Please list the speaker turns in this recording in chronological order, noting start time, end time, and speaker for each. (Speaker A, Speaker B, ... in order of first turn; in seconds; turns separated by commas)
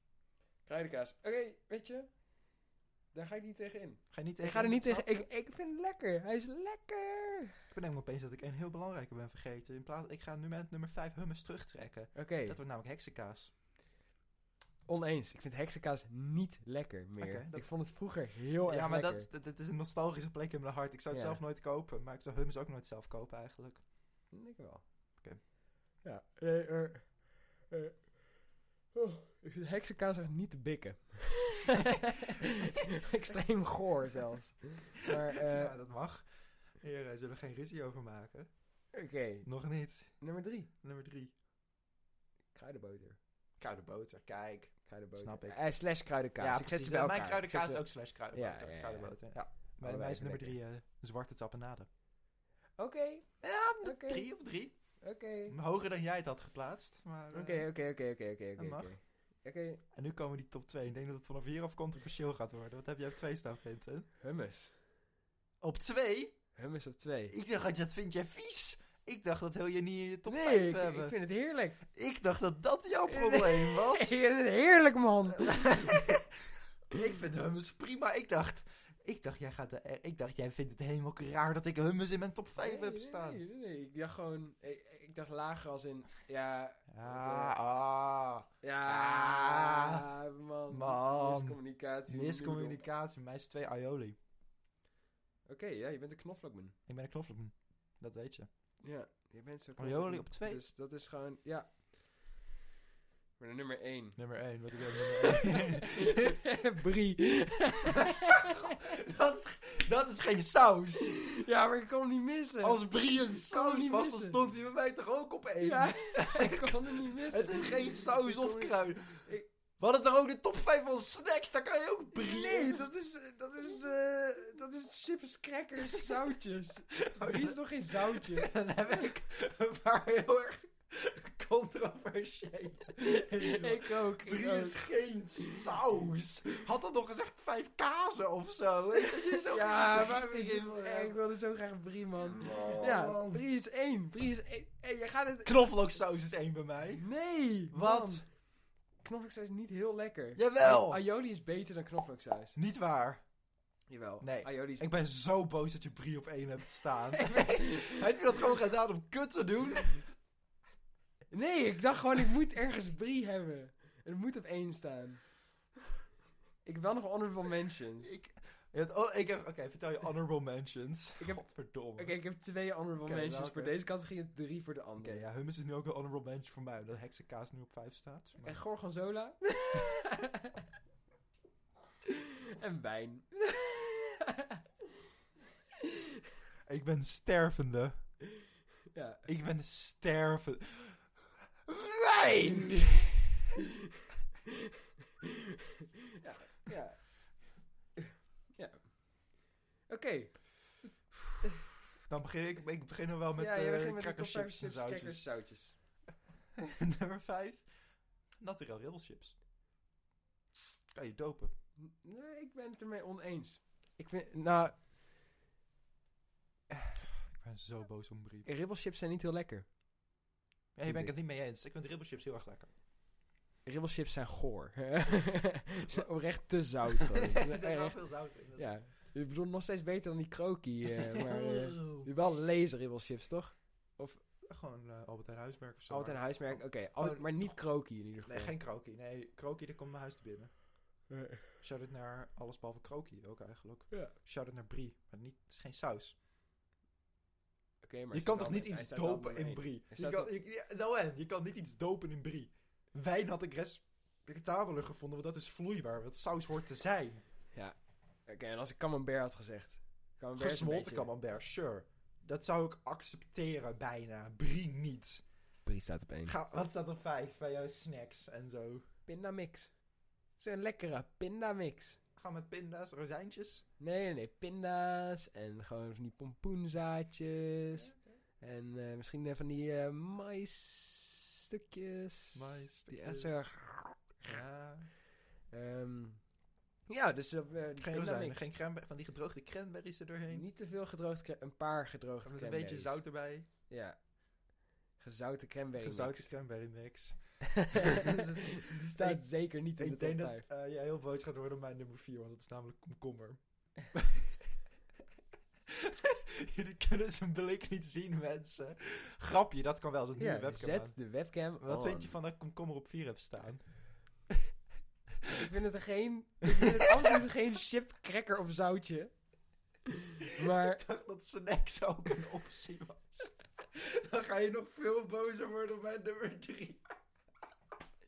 Speaker A: 0.6-7.6, Speaker B: 4.1-5.2, Speaker B: 7.7-13.5, Speaker A: 12.1-12.6, Speaker A: 14.8-19.3, Speaker B: 17.2-23.9, Speaker A: 21.1-21.4, Speaker A: 24.3-25.2, Speaker A: 26.0-28.3, Speaker A: 28.9-35.8, Speaker B: 35.3-41.3, Speaker A: 38.9-39.5, Speaker A: 40.2-40.7, Speaker A: 42.5-43.2, Speaker B: 43.6-51.9, Speaker A: 44.9-50.6, Speaker A: 52.8-55.5, Speaker B: 53.4-57.7, Speaker A: 57.3-59.8, Speaker B: 58.5-59.0, Speaker B: 59.9-64.1, Speaker A: 64.2-64.7, Speaker B: 65.6-66.5, Speaker A: 66.5-67.3, Speaker B: 67.3-71.2, Speaker A: 70.2-71.8, Speaker B: 71.9-74.2, Speaker A: 73.1-76.2, Speaker B: 75.4-83.4, Speaker A: 82.6-87.5, Speaker B: 86.9-90.0, Speaker A: 88.6-92.8, Speaker B: 90.7-94.2, Speaker A: 95.5-96.7, Speaker B: 96.9-98.5, Speaker A: 98.8-102.3, Speaker B: 99.8-100.6, Speaker A: 103.4-104.5, Speaker B: 104.2-106.3, Speaker A: 105.0-108.7, Speaker B: 108.8-111.3, Speaker A: 111.3-114.4, Speaker B: 112.6-122.9, Speaker A: 115.6-119.5, Speaker A: 122.1-128.6, Speaker B: 127.0-141.2, Speaker A: 133.0-135.6, Speaker A: 139.0-145.8, Speaker B: 142.2-143.4, Speaker B: 145.4-148.2, Speaker A: 147.0-152.6, Speaker B: 150.3-151.0, Speaker B: 152.5-153.4, Speaker A: 153.9-154.9, Speaker B: 154.2-160.1, Speaker A: 157.1-158.0, Speaker A: 161.3-165.3, Speaker A: 166.6-168.2, Speaker B: 168.0-172.2, Speaker A: 171.2-175.2, Speaker B: 173.0-173.8, Speaker B: 175.0-178.6, Speaker A: 178.4-180.5, Speaker A: 182.1-184.6, Speaker B: 186.6-188.1, Speaker A: 188.9-189.2, Speaker B: 189.2-193.4, Speaker A: 196.2-197.5, Speaker A: 198.5-200.8, Speaker B: 202.0-205.3, Speaker A: 203.4-205.8, Speaker B: 206.6-207.7, Speaker B: 208.4-209.4, Speaker B: 210.9-211.5, Speaker A: 211.8-214.8, Speaker B: 217.2-218.5, Speaker A: 218.4-219.7, Speaker B: 220.7-222.7, Speaker A: 220.8-221.1, Speaker A: 223.6-234.2, Speaker B: 225.9-228.8, Speaker B: 231.1-232.1, Speaker B: 234.4-246.2, Speaker A: 235.9-238.6, Speaker A: 241.1-241.5, Speaker A: 247.8-250.3, Speaker B: 248.1-257.2, Speaker A: 257.5-261.1, Speaker B: 260.4-265.3, Speaker A: 265.6-266.4, Speaker B: 266.2-268.9, Speaker A: 269.1-272.0, Speaker B: 272.1-273.6, Speaker A: 273.8-284.3, Speaker B: 277.7-278.2, Speaker B: 282.3-283.6, Speaker B: 284.2-284.9, Speaker A: 285.5-288.5, Speaker B: 287.8-290.5, Speaker A: 290.3-293.1, Speaker B: 292.2-293.5, Speaker A: 293.7-296.3, Speaker B: 295.8-304.4, Speaker A: 297.8-300.5, Speaker B: 305.7-314.2, Speaker A: 310.2-312.1, Speaker A: 315.3-319.3, Speaker A: 320.2-320.8, Speaker B: 320.4-326.9